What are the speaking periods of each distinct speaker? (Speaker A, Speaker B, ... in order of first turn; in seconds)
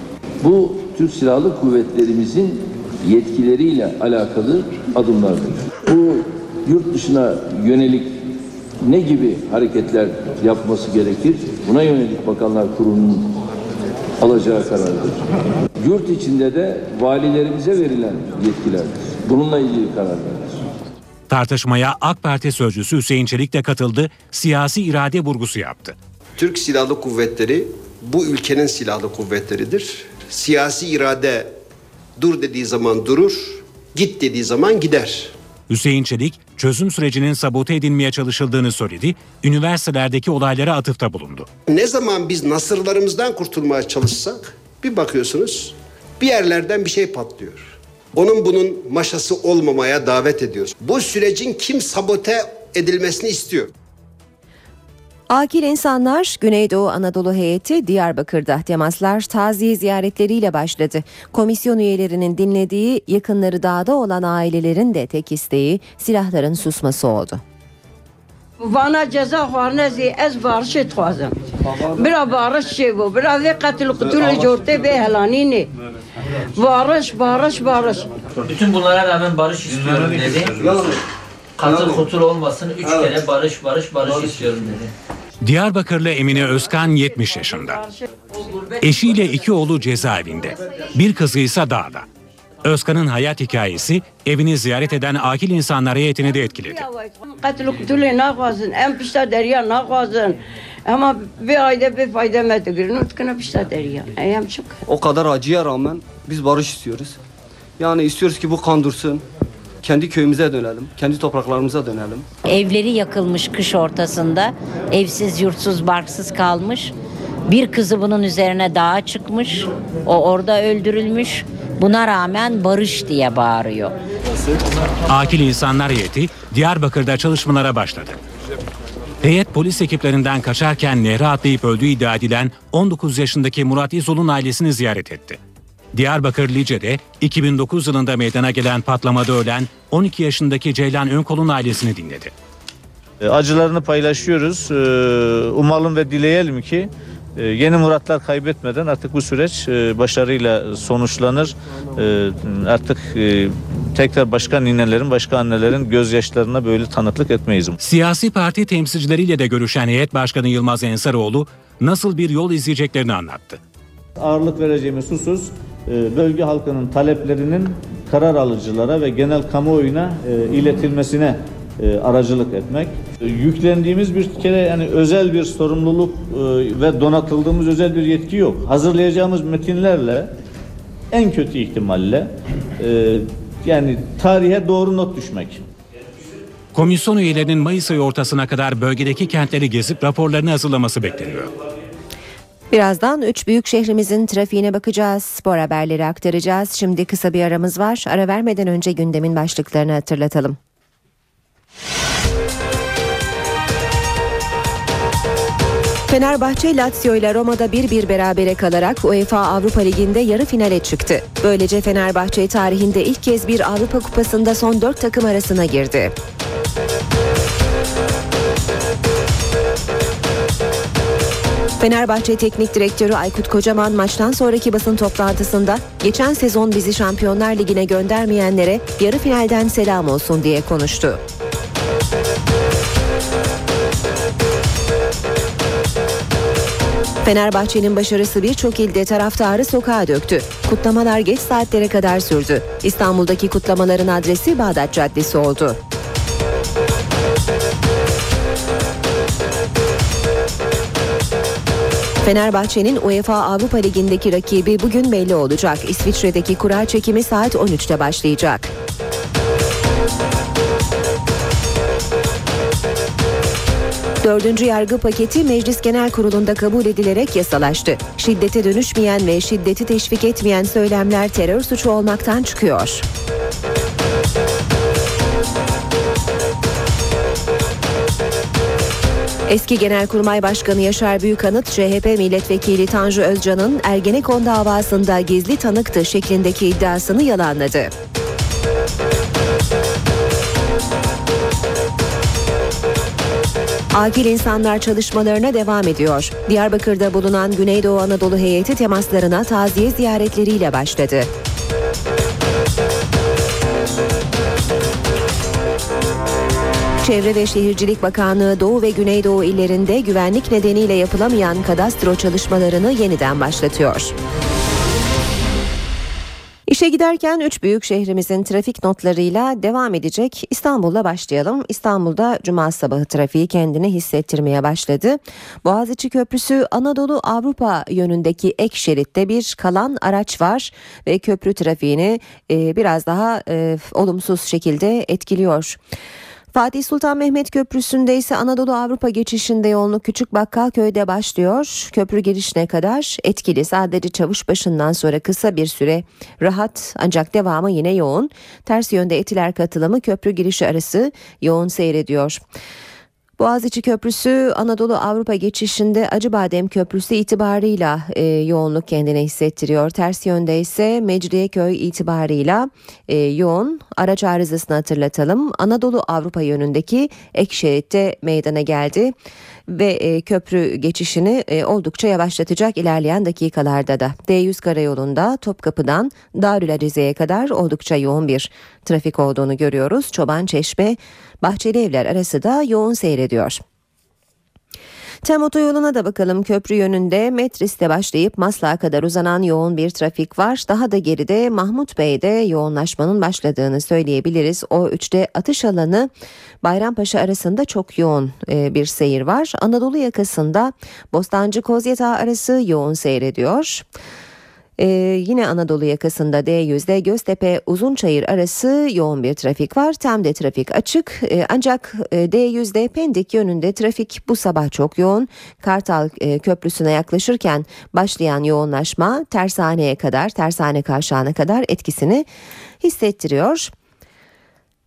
Speaker A: 0.4-8.2, 8.8-13.3, 14.2-15.2, 15.8-20.6
Speaker B: 21.3-26.0, 35.7-41.5, 85.4-87.8, 88.8-92.1, 92.6-96.8, 125.1-128.2, 129.2-135.4, 135.9-142.3, 157.8-163.6, 186.7-191.5
Speaker C: 26.4-31.5, 32.2-35.3, 41.7-53.7
Speaker D: 55.3-67.4, 192.7-200.6, 206.1-216.2, 221.8-231.2, 237.2-245.8, 252.2-258.7, 264.2-273.1, 279.5-287.9, 293.9-301.3, 307.0-314.1, 316.7-335.8, 336.5-352.4, 353.4-369.1, 369.7-383.6, 385.2-396.1, 396.6-403.9, 404.8-422.3, 422.8-423.7
Speaker E: 68.6-71.4, 71.9-75.7, 76.6-78.1, 96.7-104.8
Speaker F: 78.5-80.6, 81.6-84.9
Speaker G: 79.6-80.8, 143.2-157.8, 164.2-180.3, 181.1-185.7
Speaker H: 104.9-107.2, 107.8-109.2, 109.8-112.2
Speaker I: 112.5-116.9, 117.5-123.9